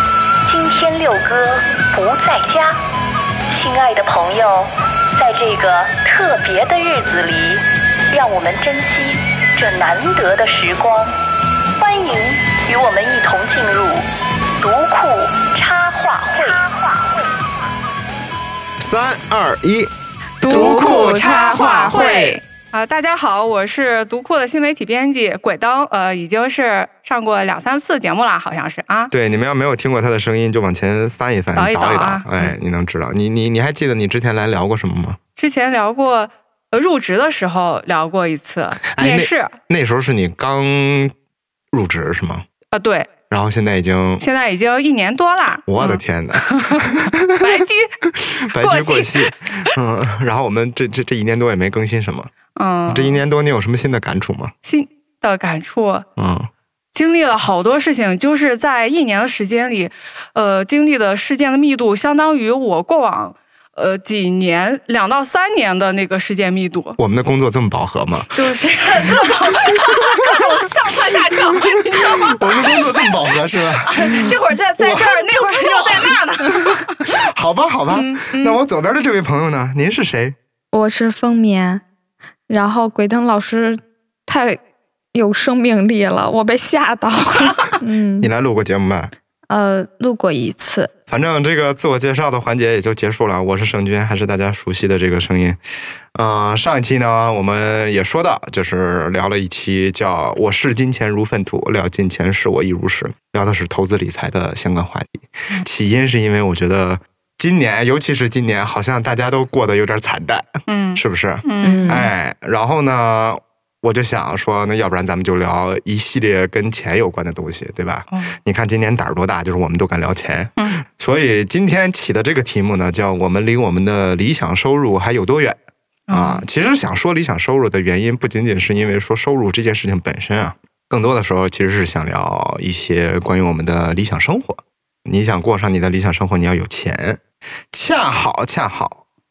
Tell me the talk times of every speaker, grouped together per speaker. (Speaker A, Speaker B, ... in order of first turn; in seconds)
Speaker A: 0.5-2.8, 3.5-11.2, 11.8-14.1, 14.6-16.7
Speaker B: 18.8-19.9, 20.4-22.2, 29.1-35.2, 38.9-41.1, 41.7-42.5, 43.3-44.3, 45.7-47.5, 48.2-52.3, 52.9-54.5, 56.2-56.5, 67.0-69.3, 69.9-70.5, 71.9-76.2, 77.0-80.4, 88.2-89.1, 91.1-95.6, 96.1-125.6, 126.1-139.0
Speaker C: 20.4-22.4, 74.0-74.3, 80.7-81.8, 82.5-84.6, 85.1-88.3, 89.5-90.9, 111.6-112.1
Speaker D: 20.4-29.1, 31.6-32.5, 35.4-39.6, 42.7-43.1, 44.2-48.0, 48.5-49.7, 52.6-53.2, 54.6-56.1, 57.0-67.0, 68.3-77.1, 77.9-78.6, 110.7-112.1, 118.1-118.4, 120.6-120.8, 126.1-126.4